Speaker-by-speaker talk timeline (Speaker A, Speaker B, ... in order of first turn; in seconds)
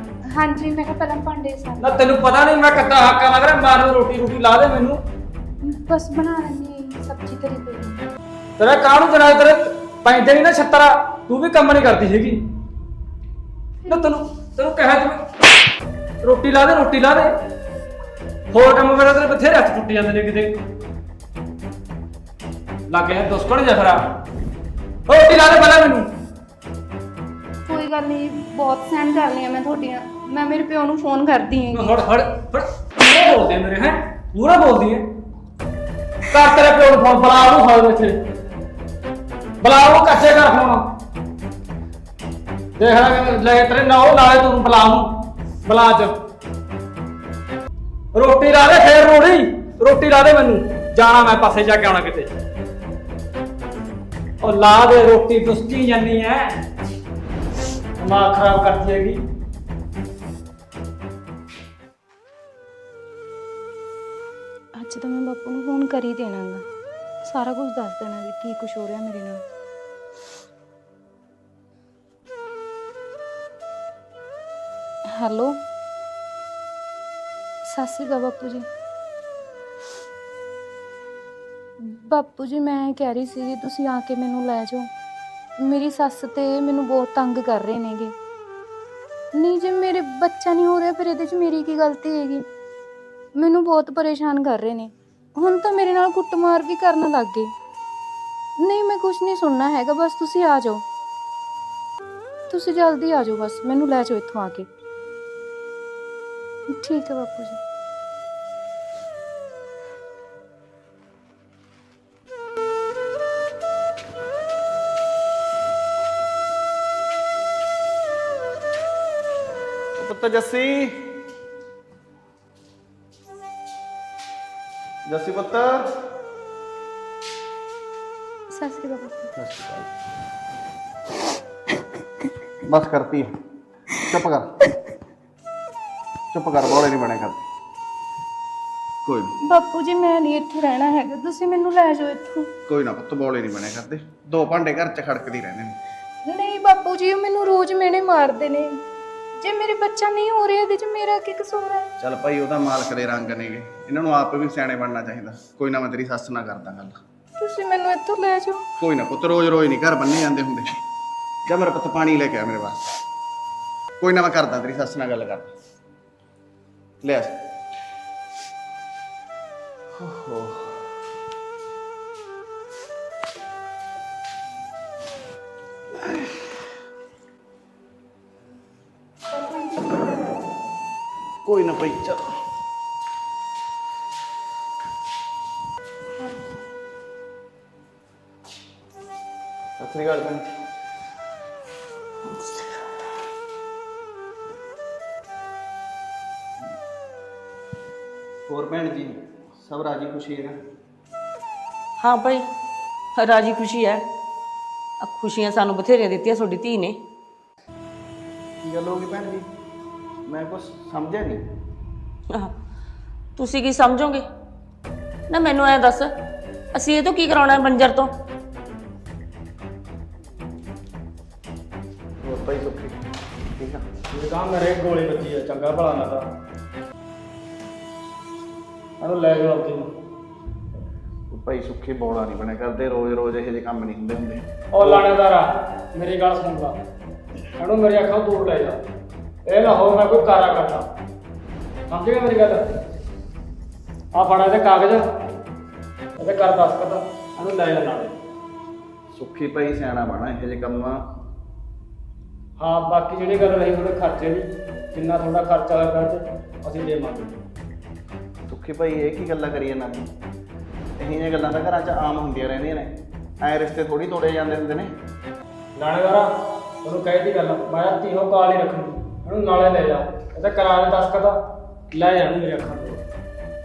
Speaker A: 0.3-2.0, 5.6-8.1, 27.6-31.9, 64.8-66.6, 67.2-69.4, 75.1-75.6, 77.7-78.7, 81.8-84.9, 85.6-88.1, 89.3-92.4, 93.4-97.5, 98.6-100.8, 102.5-104.7, 106.7-107.6, 128.5-129.3, 139.4-142.5, 146.3-148.8, 149.4-151.9, 157.4-158.7, 179.3-180.3, 186.2-186.4
Speaker B: 1.8-5.0, 8.6-12.4, 13.9-15.2, 16.2-17.3, 18.5-20.6, 22.9-24.1, 25.1-26.1, 31.7-35.1, 36.3-38.2, 39.6-40.9, 42.8-46.1, 48.1-52.3, 54.4-56.5, 58.0-59.2, 129.3-129.9, 224.1-226.2, 229.0-229.9, 234.7-236.7, 237.6-238.8, 239.4-240.9, 241.9-242.6, 244.1-245.0, 246.2-248.1, 252.6-257.4, 265.8-266.3, 266.8-271.4, 271.9-273.0
Speaker C: 120.0-121.2, 125.1-125.9, 132.6-133.3, 134.0-134.5, 136.3-137.4, 139.0-139.3, 142.7-145.8, 152.0-157.0, 158.8-160.7, 161.4-163.0, 164.0-165.5, 167.0-167.5, 169.9-170.8, 176.0-176.6, 181.4-182.2, 189.8-190.5, 198.5-200.6, 208.6-209.4, 210.3-211.4, 222.2-222.9, 223.5-223.8, 231.3-235.0, 249.1-251.0, 258.5-260.0, 261.0-264.9
Speaker D: 202.0-202.5, 203.2-204.1, 205.0-207.0, 213.4-214.2, 215.3-216.1, 216.7-218.1